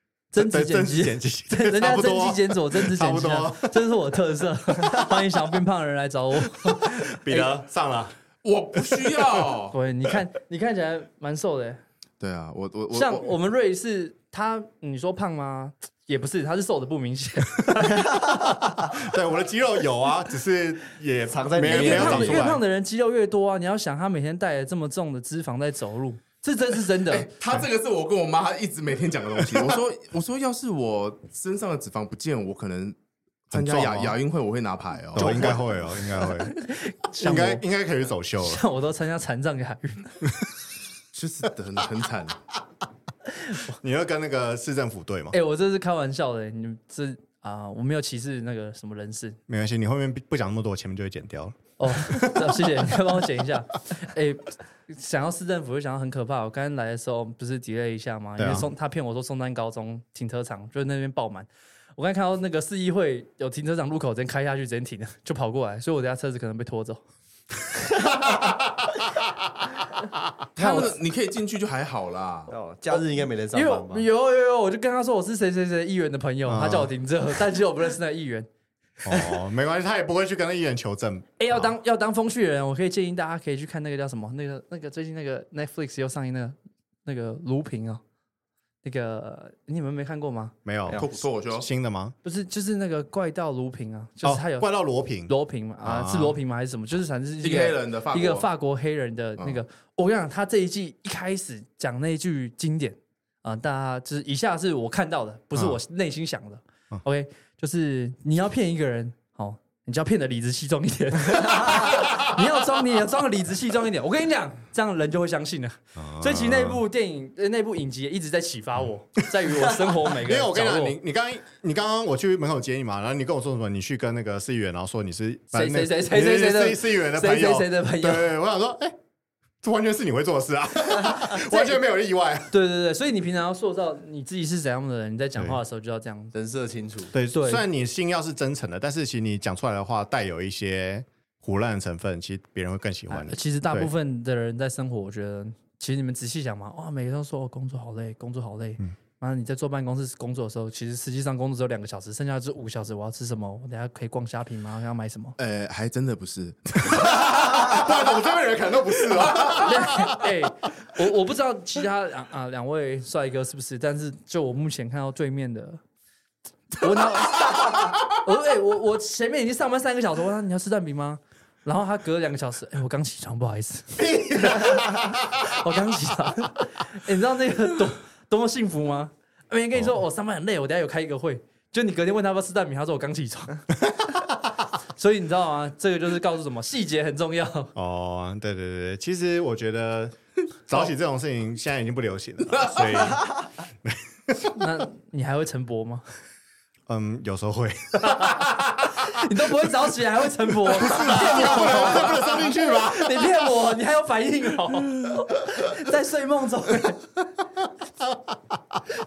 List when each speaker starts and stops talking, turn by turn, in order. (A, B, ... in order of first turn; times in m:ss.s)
0:00.3-0:07.5 A
0:00.3-0:03.7 B
0:06.8-0:08.1 B
0:08.4-0:09.7 C
0:09.7-0:11.8 A
0:12.2-0:13.3 C
0:12.9-0:18.5 A
0:18.8-0:22.6 B
0:21.3-0:22.5 D
0:21.6-0:27.3 A
0:27.0-0:33.0 C
0:33.5-0:34.2 B
0:33.5-0:35.6 C
0:35.1-0:36.6 B
0:36.3-0:37.6 A
0:37.1-0:38.6 B
0:38.4-0:40.2 A
0:41.1-0:42.4 C
0:43.7-0:45.4 B
0:45.3-0:49.4 A
0:49.5-0:52.9 B
0:51.8-1:07.0 A
0:58.4-0:58.7 B
1:10.6-1:12.5 C
1:10.6-1:10.9 A
1:12.5-1:14.0 D
1:12.9-1:18.5 A
1:16.5-1:16.9 B
1:19.0-1:21.7 B
1:21.4-1:28.0 A
1:28.8-1:30.5 A
1:30.6-1:32.1 B
1:30.9-1:31.7 C
1:32.2-1:34.7 A
1:34.2-1:36.4 B
1:35.3-2:01.0 A
1:37.4-1:38.5 C
1:51.7-1:52.3 B
1:56.0-1:56.8 B
1:59.5-2:08.9 B
2:05.5-2:08.3 A
2:09.6-2:12.5 B
2:11.2-2:11.8 A
2:12.5-2:16.3 A
2:16.3-2:17.1 D
2:17.1-2:23.9 B
2:17.3-2:17.6 A
2:23.1-2:35.4 A
2:35.4-2:38.0 C
2:36.9-2:40.3 B
2:39.0-2:39.6 C
2:39.5-2:45.8 A
2:46.7-3:03.7 A
2:54.0-2:55.2 B
2:59.7-3:00.0 B
3:04.9-3:07.7 A
3:07.7-3:10.2 B
3:10.7-3:14.6 B
3:12.6-3:13.2 C
3:14.5-3:16.0 A
3:16.9-3:19.0 B
3:18.9-3:27.0 A
3:20.7-3:23.4 B
3:21.5-3:22.2 C
3:28.0-3:28.8 B